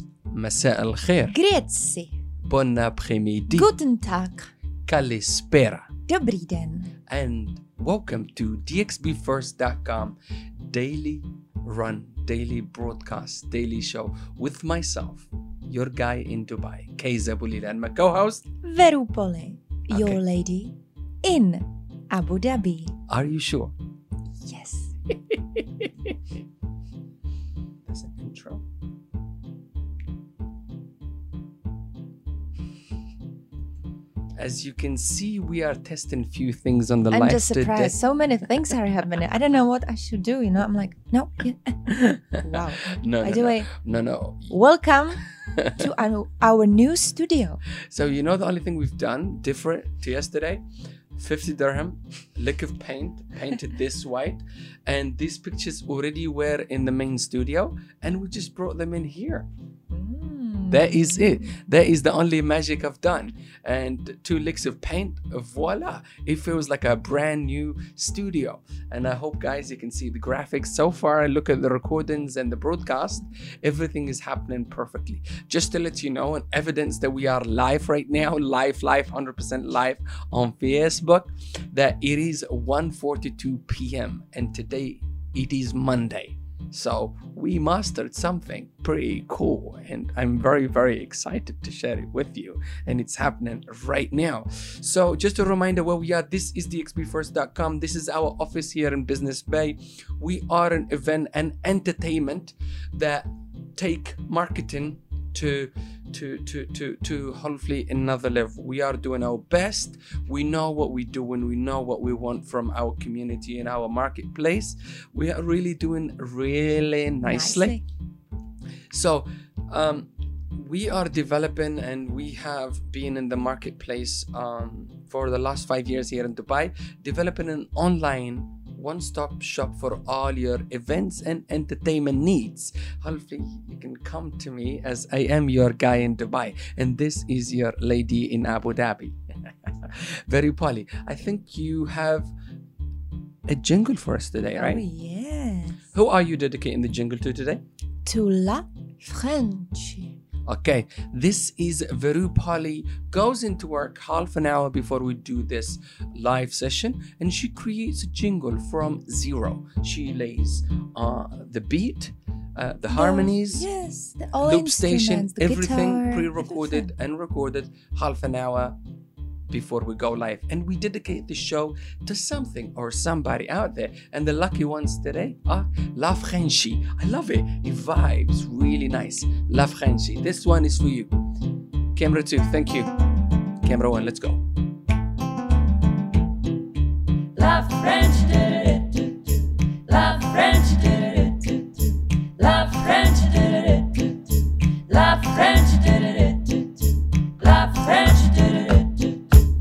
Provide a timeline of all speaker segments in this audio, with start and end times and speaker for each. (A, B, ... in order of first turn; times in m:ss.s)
0:00.3-0:01.4 A
0:01.3-0:02.1 B
0:02.4-0:03.7 A
0:03.5-0:04.5 B
0:04.9-0:05.9 A
0:06.1-0:06.9 B
0:07.1-0:18.4 A
0:18.6-0:23.0 B
0:19.9-0:20.2 A
0:23.1-0:23.7 A
0:24.4-0:24.9 B
0:25.1-0:26.2 A
0:27.9-0:28.6 A
0:34.4-0:37.9 A
0:37.1-0:43.7 B
0:41.9-0:44.6 A
0:44.5-0:45.2 B
0:45.4-0:45.8 A
0:45.8-0:47.6 B
0:47.9-0:50.6 A
0:51.2-0:59.5 A
0:59.9-1:01.4 B
1:00.7-1:57.8 A
1:57.2-1:57.8 B
1:58.9-2:22.3 A
2:23.5-2:24.8 A
2:24.6-2:25.8 B
2:25.9-2:27.6 A
2:28.0-2:30.2 B
2:30.5-2:43.7 A
2:42.9-2:46.9 B
2:44.4-2:48.8 A
2:49.5-3:01.1 A
3:02.0-3:02.9 A
3:03.6-3:04.4 A
3:07.4-3:19.2 B